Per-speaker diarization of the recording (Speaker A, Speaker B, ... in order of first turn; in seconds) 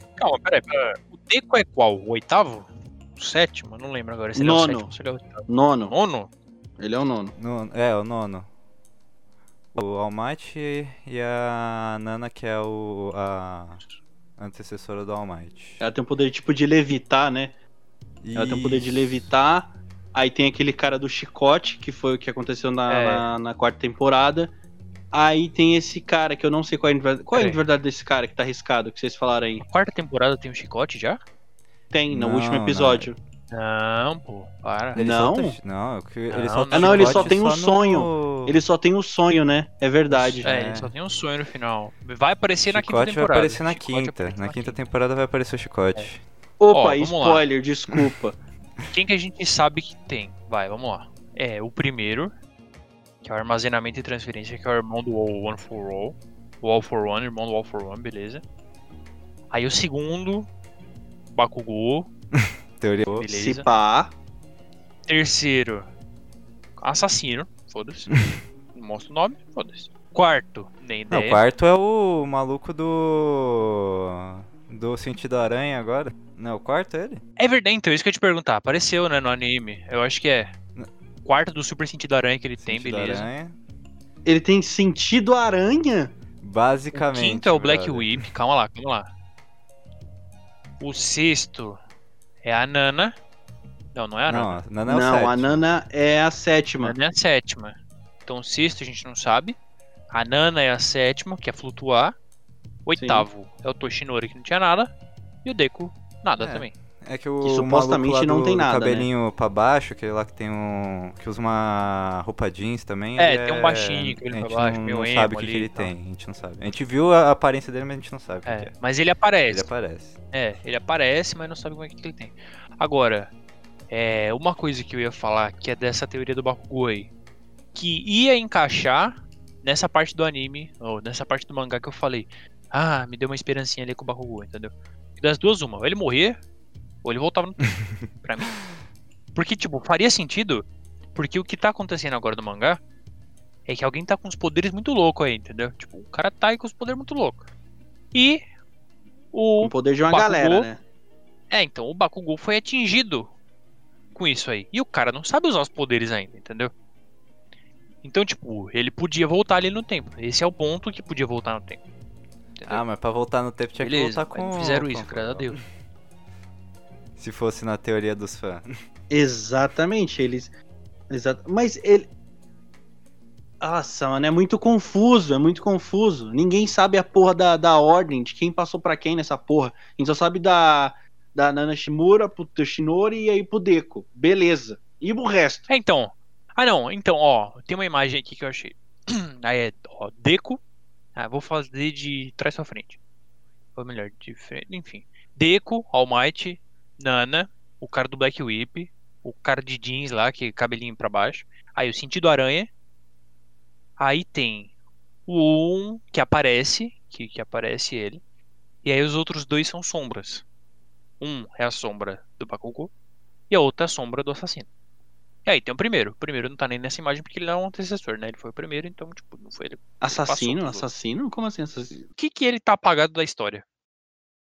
Speaker A: 0.2-6.3, 22.9-23.3, 27.3-27.6, 29.6-31.2, 33.5-35.0, 36.3-37.4, 40.1-44.8, 46.7-47.4, 48.9-52.3, 53.2-58.4, 59.5-60.5, 61.3-62.1, 63.1-63.7, 65.1-65.9, 66.8-68.2, 68.7-71.4, 77.4-80.5, 81.2-83.3, 86.9-89.1, 90.8-91.8, 92.4-93.2, 94.0-94.6, 96.8-99.6, 100.1-102.2, 102.9-104.9, 105.4-106.7, 113.2-115.9, 118.5-119.7, 120.3-123.3, 123.9-127.1, 127.7-136.4, 137.0-138.5, 139.3-142.8, 143.7-147.5, 148.1-148.4, 149.3-150.7, 151.5-153.3, 154.2-156.7, 158.0-161.8, 162.6-162.8, 163.8-165.6, 185.7-190.6, 191.2-193.0, 193.8-202.7, 204.0-204.7, 205.3-208.2, 208.8-210.4, 211.2-212.9, 213.5-214.7, 215.4-220.9, 222.2-223.6
Speaker B: 4.3-5.0, 5.5-5.9, 6.8-7.3, 15.8-17.6, 18.4-24.5, 25.1-29.6, 31.9-33.2, 35.0-35.6, 36.7-40.5, 46.6-48.4, 63.3-64.1, 84.2-86.1, 94.9-97.0, 103.0-103.3, 107.4-109.1, 149.6-150.8, 169.1-170.5, 171.1-172.1, 173.6-185.7, 220.0-222.1
Speaker C: 7.4-8.5, 9.7-13.8, 14.4-15.8, 18.2-19.3, 32.1-33.1, 35.0-38.6, 40.4-40.9, 42.7-46.2, 62.4-63.3, 71.1-77.2, 82.6-83.6, 86.4-88.2, 94.3-95.5, 106.4-118.7, 119.5-120.2, 162.6-165.6, 167.2-168.7